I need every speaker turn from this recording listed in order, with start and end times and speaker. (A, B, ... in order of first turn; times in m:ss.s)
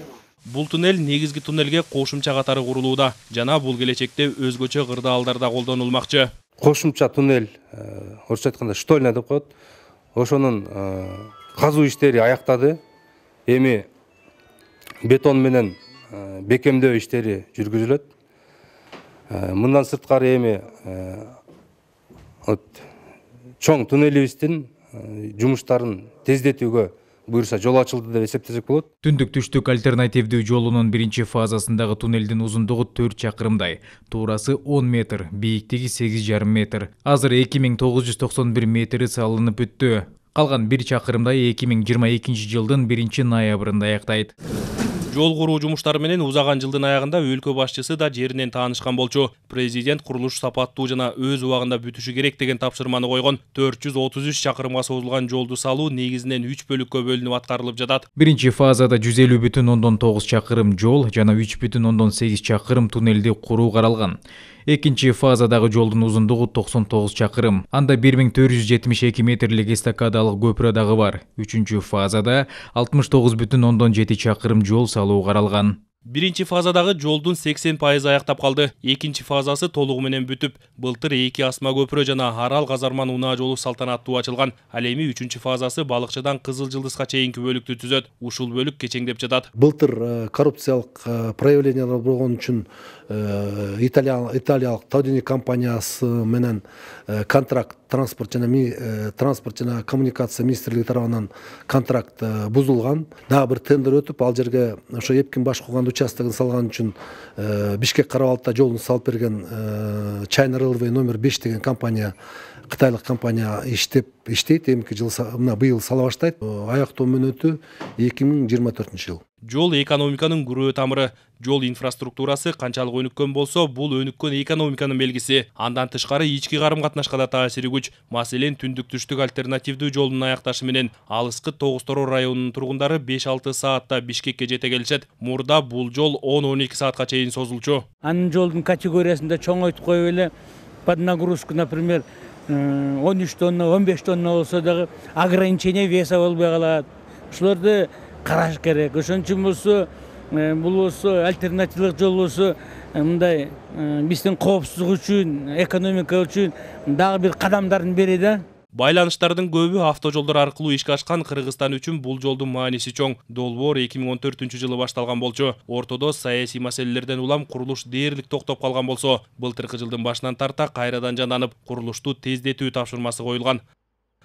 0:00.4-0:06.3 A
0:06.6-0:09.5 B
0:10.1-0:12.8 B
0:13.5-0:13.9 B
0:15.0-0:18.0 B
0:19.3-0:21.2 B
0:22.4-0:22.8 B
0:23.6-0:28.9 B
0:29.0-0:44.3 C
0:45.1-0:58.0 A
0:58.2-1:15.8 C
1:16.1-1:29.5 A
1:29.6-1:52.1 D
1:52.7-1:59.2 D
1:59.5-2:17.8 A
2:18.0-2:20.3 E
2:20.8-2:38.4 E
2:38.7-2:53.6 A